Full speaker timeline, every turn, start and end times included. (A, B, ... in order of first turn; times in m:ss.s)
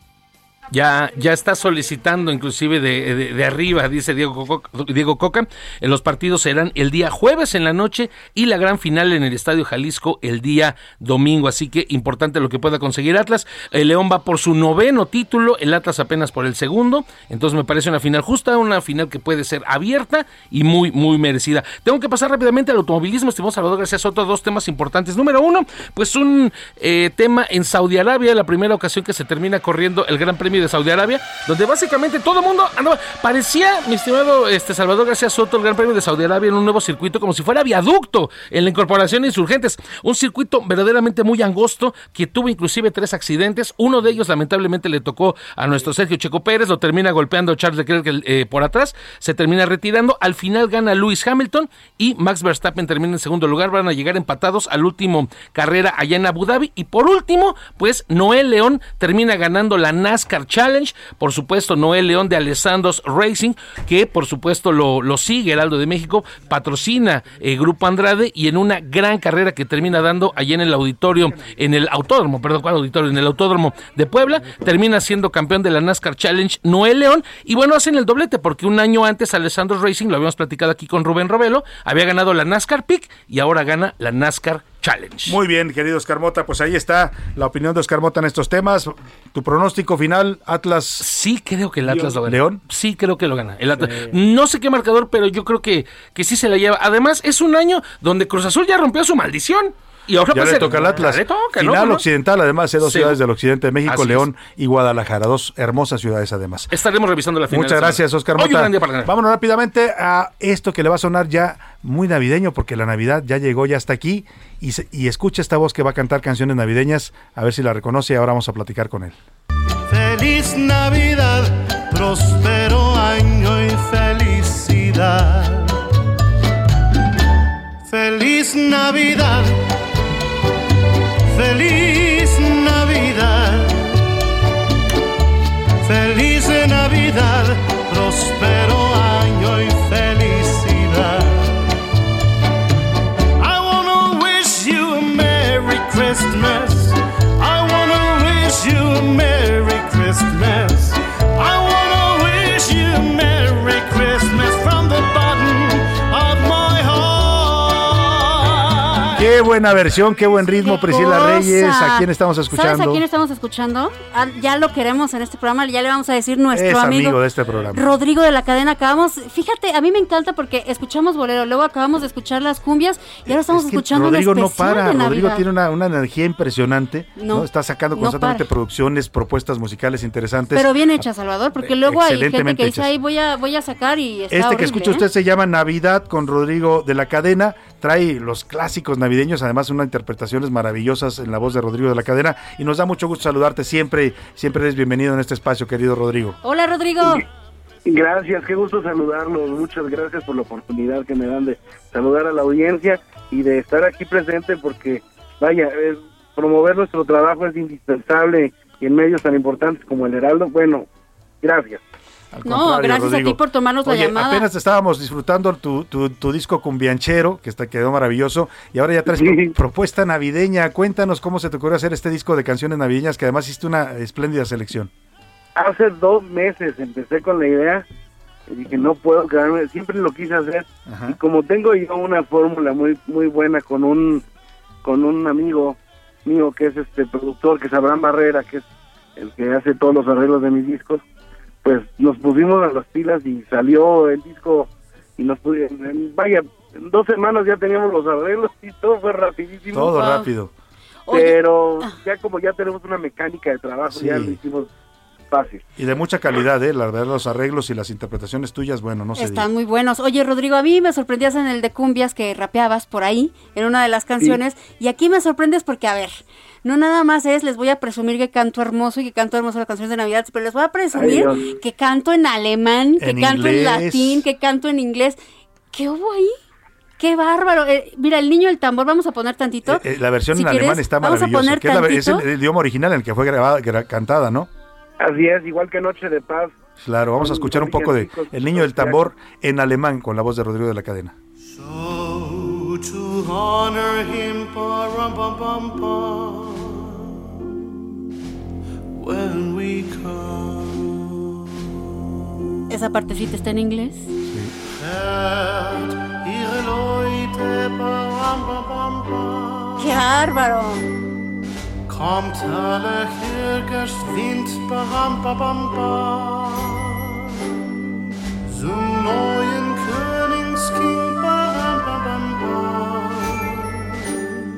0:00.7-1:25.4 A
1:25.2-1:31.1 B
1:31.0-1:42.0 A
1:31.8-1:32.6 B
1:40.2-1:46.8 B
1:42.8-1:43.2 A
1:43.8-1:44.3 A
1:46.7-1:49.1 A
1:47.5-1:59.2 B
1:59.9-2:05.8 C
2:07.9-2:09.6 C
2:11.3-2:13.9 C
2:15.8-2:21.5 C
2:23.4-2:39.0 C
2:39.2-2:43.0 B
2:40.4-2:47.2 D
2:46.5-2:47.8 B
2:47.7-2:55.4 D
2:53.3-3:01.0 B
2:57.2-2:58.4 D
3:00.5-3:05.0 D
3:01.6-3:02.9 B
3:04.3-3:16.4 B
3:16.4-3:17.2 D
3:17.9-3:30.9 E
3:31.4-3:31.8 E
3:32.3-3:44.9 B
3:32.5-3:34.5 D
3:39.1-3:39.5 E
3:45.6-3:47.8 E
3:48.5-3:54.2 E
3:50.9-3:51.2 B
3:54.8-4:01.0 E
4:01.6-4:10.0 E
4:09.7-4:10.5 B
4:09.9-4:10.3 D
4:11.1-4:12.0 D
4:11.1-4:14.7 E
4:13.9-4:14.4 B
4:15.3-4:15.6 E
4:15.8-4:19.5 B
4:19.2-4:35.2 D
4:30.9-4:31.5 E
4:33.0-4:34.2 B
4:35.7-4:36.4 D
4:37.0-4:42.2 D
4:39.7-4:44.5 B
4:45.0-4:46.5 E
4:46.8-4:51.2 B
4:47.2-4:49.1 E
4:51.5-4:57.2 C
4:59.0-5:01.2 C
5:02.7-5:04.1 D
5:04.8-5:10.0 C
5:09.8-5:10.9 D
5:11.9-5:17.3 C
5:18.4-5:24.2 C